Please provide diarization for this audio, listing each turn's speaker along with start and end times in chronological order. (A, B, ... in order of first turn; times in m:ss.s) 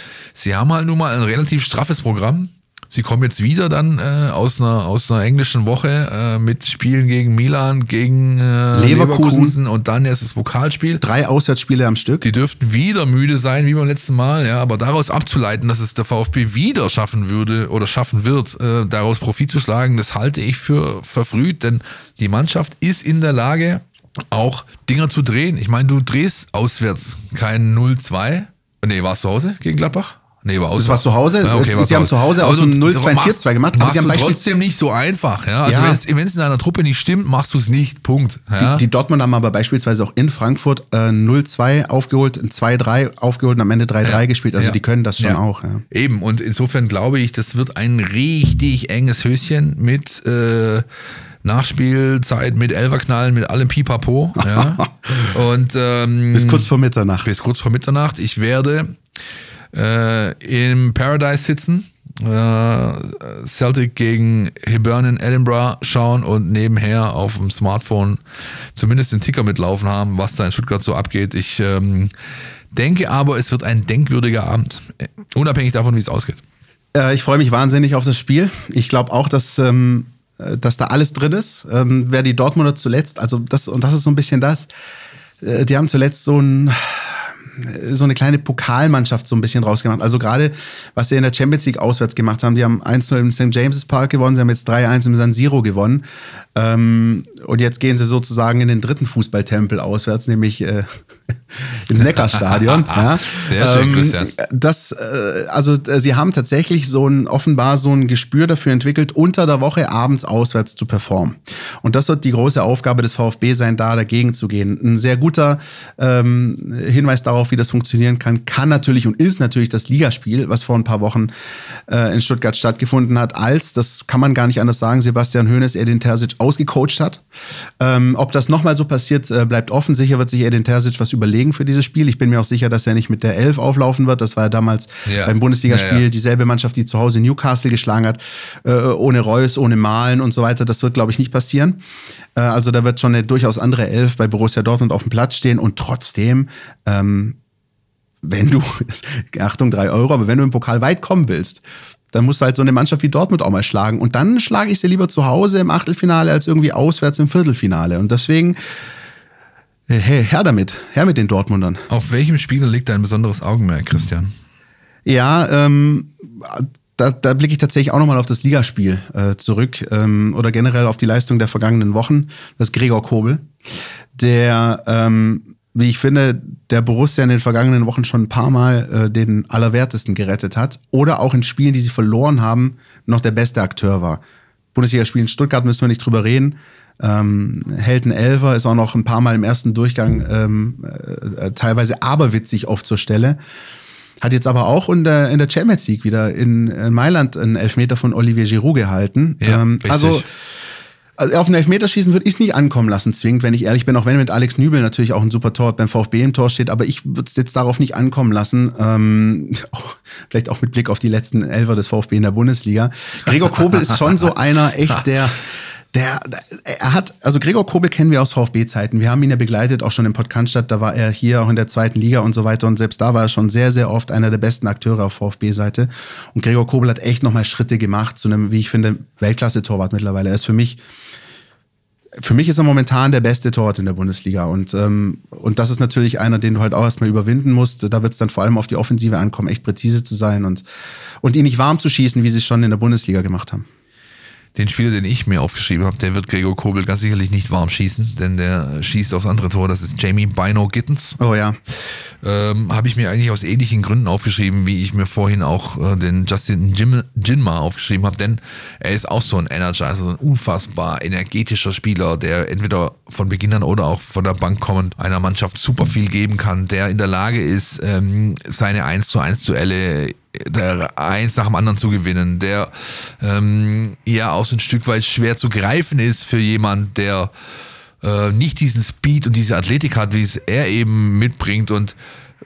0:00.4-0:11.0 A
0:08.7-0:09.6 B
0:11.0-0:12.3 B
0:12.2-0:38.8 A
0:30.8-0:34.4 B
0:35.6-0:36.0 B
0:38.6-0:45.8 B
0:44.0-0:45.4 A
0:45.9-0:50.8 A
0:51.4-0:56.7 A
0:54.4-0:54.8 B
0:56.3-0:57.3 B
0:57.2-0:59.0 A
0:59.7-1:08.2 A
1:08.8-1:12.1 A
1:12.7-1:16.4 A
1:17.0-1:24.7 B
1:25.4-1:41.0 B
1:41.5-2:01.3 B
1:42.3-1:44.3 A
2:01.9-2:07.2 B
2:07.8-2:21.8 B
2:15.1-2:16.0 A
2:22.4-2:27.4 B
2:28.2-2:38.6 B
2:39.9-2:41.8 B
2:41.9-2:44.3 A
2:45.1-2:53.5 B
2:54.2-3:04.2 B
3:04.7-3:13.4 B
3:14.2-3:20.3 B
3:19.4-3:20.2 A
3:21.2-3:50.8 B
3:52.2-4:00.6 B
4:01.2-4:03.7 B
4:04.6-4:11.2 A
4:11.2-4:11.6 B
4:12.2-4:37.3 A
4:38.0-4:42.0 A